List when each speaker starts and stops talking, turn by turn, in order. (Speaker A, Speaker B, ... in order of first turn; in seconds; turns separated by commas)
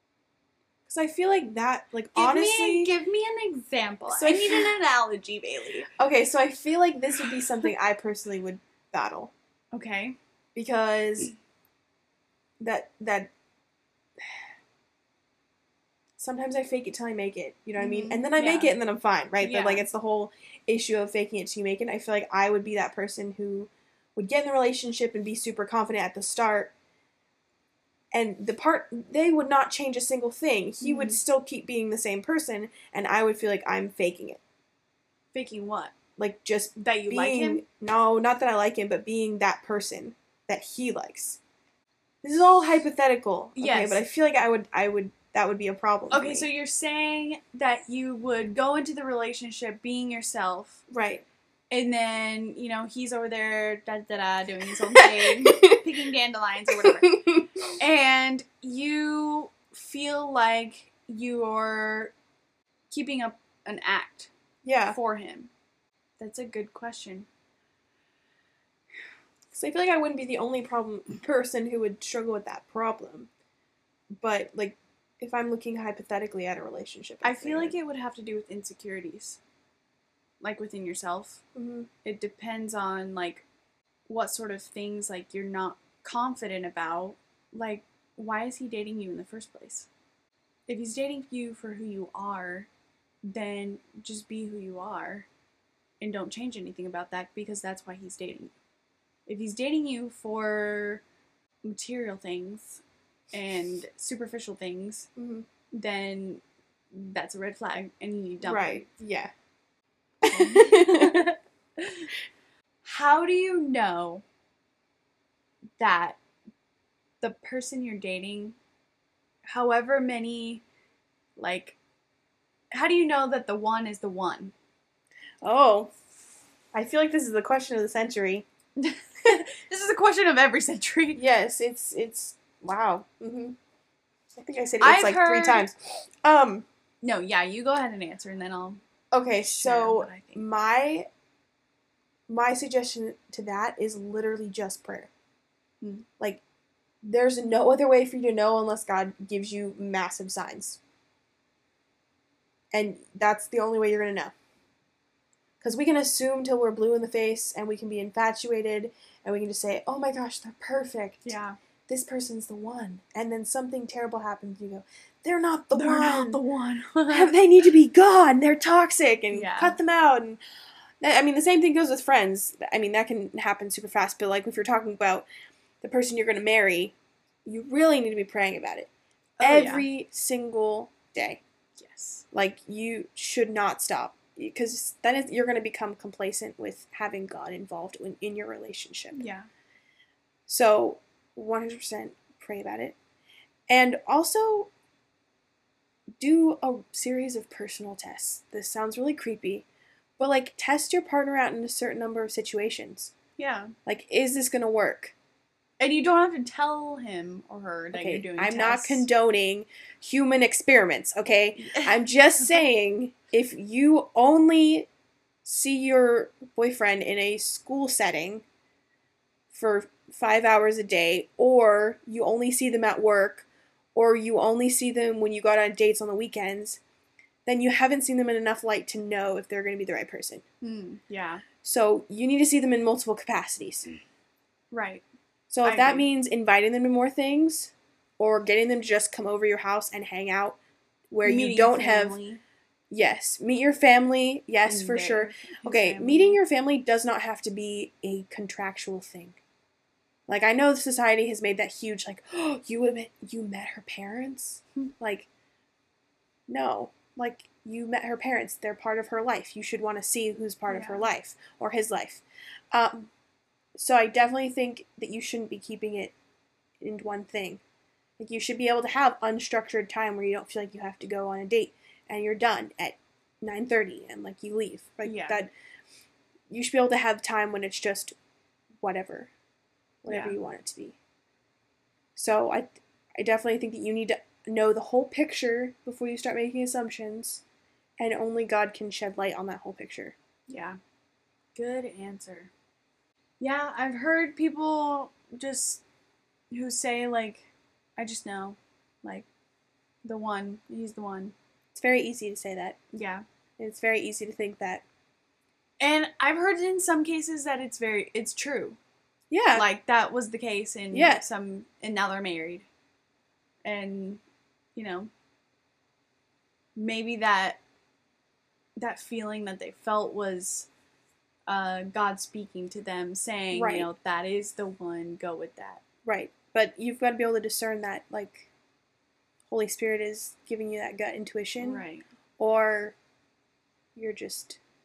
Speaker A: 0.9-2.9, Speaker B: 2.1-5.9, Speaker A: 4.1-4.7, Speaker A: 6.0-9.3, Speaker B: 9.7-10.2, Speaker A: 10.6-11.3, Speaker A: 12.6-13.3, Speaker A: 16.2-26.7, Speaker B: 17.8-18.8, Speaker B: 19.4-19.9, Speaker A: 28.1-34.4, Speaker B: 30.8-31.2, Speaker B: 35.3-36.0, Speaker A: 36.2-41.4, Speaker B: 36.8-37.6, Speaker A: 42.2-46.5, Speaker B: 43.6-44.0, Speaker B: 46.1-50.8, Speaker A: 50.9-51.2, Speaker B: 51.7-57.2, Speaker A: 55.0-55.8, Speaker A: 56.8-57.5, Speaker B: 57.8-62.1, Speaker B: 62.9-64.3, Speaker A: 64.7-65.0, Speaker B: 64.9-65.5, Speaker B: 66.2-67.3, Speaker A: 69.5-73.3, Speaker A: 74.2-77.8, Speaker B: 77.2-79.4, Speaker B: 80.4-81.4, Speaker A: 81.5-81.9, Speaker B: 82.0-83.5, Speaker B: 84.1-89.9, Speaker B: 90.7-92.7, Speaker B: 93.3-95.3, Speaker B: 96.0-98.5, Speaker B: 99.3-101.0, Speaker B: 101.7-102.8, Speaker B: 103.3-105.1, Speaker A: 105.2-105.5, Speaker B: 105.7-108.9, Speaker A: 108.4-109.3, Speaker A: 110.2-111.3, Speaker B: 110.2-112.1, Speaker B: 112.8-114.2, Speaker B: 115.8-116.2, Speaker B: 117.2-118.6, Speaker B: 119.5-120.6, Speaker B: 121.4-121.8, Speaker B: 122.7-124.5, Speaker A: 125.4-125.9, Speaker A: 126.7-128.5, Speaker B: 128.8-131.2, Speaker A: 131.2-133.6, Speaker A: 134.3-136.7, Speaker B: 134.8-135.7, Speaker B: 137.0-138.8, Speaker A: 139.1-141.1, Speaker B: 139.4-140.4, Speaker A: 142.3-145.1, Speaker A: 147.0-150.8, Speaker A: 152.7-154.3, Speaker A: 155.6-161.3, Speaker B: 161.2-161.6, Speaker A: 161.9-166.4, Speaker B: 165.7-167.3, Speaker A: 167.1-170.4, Speaker B: 169.3-169.8, Speaker A: 171.0-175.3, Speaker A: 175.8-176.9, Speaker A: 177.4-178.9, Speaker B: 179.4-179.9, Speaker A: 179.4-181.4, Speaker B: 181.8-182.2, Speaker A: 182.3-189.2, Speaker B: 189.1-189.5, Speaker A: 190.5-193.0, Speaker A: 193.7-194.7, Speaker A: 196.2-199.7, Speaker A: 200.2-203.1, Speaker B: 203.4-203.7, Speaker A: 203.9-205.2, Speaker B: 205.8-209.1, Speaker A: 207.9-214.9, Speaker B: 211.6-212.6, Speaker A: 215.4-218.4, Speaker A: 219.5-226.8, Speaker A: 227.5-230.4, Speaker B: 230.6-231.4, Speaker A: 231.6-233.9, Speaker B: 234.7-235.0, Speaker A: 235.5-240.6, Speaker B: 235.6-236.1, Speaker A: 241.1-242.2, Speaker B: 241.2-242.4, Speaker A: 242.9-249.4, Speaker B: 244.7-246.4, Speaker A: 250.3-255.3, Speaker A: 256.5-263.1, Speaker B: 260.7-261.1, Speaker A: 263.8-266.1, Speaker A: 266.8-267.6, Speaker A: 268.2-275.5, Speaker B: 275.0-275.4, Speaker A: 276.5-278.1, Speaker A: 278.8-279.3, Speaker A: 280.0-281.0, Speaker B: 280.1-280.4, Speaker A: 282.2-287.4, Speaker A: 288.0-290.1, Speaker B: 290.5-290.8, Speaker B: 291.6-292.5, Speaker B: 293.4-295.8, Speaker B: 296.5-299.3, Speaker B: 300.0-301.3, Speaker A: 301.8-302.8, Speaker B: 302.9-303.2, Speaker A: 303.6-304.8, Speaker B: 305.8-308.8, Speaker A: 309.3-309.6, Speaker B: 309.5-312.7, Speaker A: 310.9-311.2, Speaker B: 313.6-314.2, Speaker B: 314.8-315.1, Speaker B: 316.8-317.6, Speaker B: 318.8-320.7, Speaker B: 321.5-325.8, Speaker A: 323.5-323.9, Speaker A: 326.1-328.5, Speaker A: 329.5-331.8, Speaker B: 331.6-332.0, Speaker A: 332.4-333.0, Speaker A: 334.0-334.6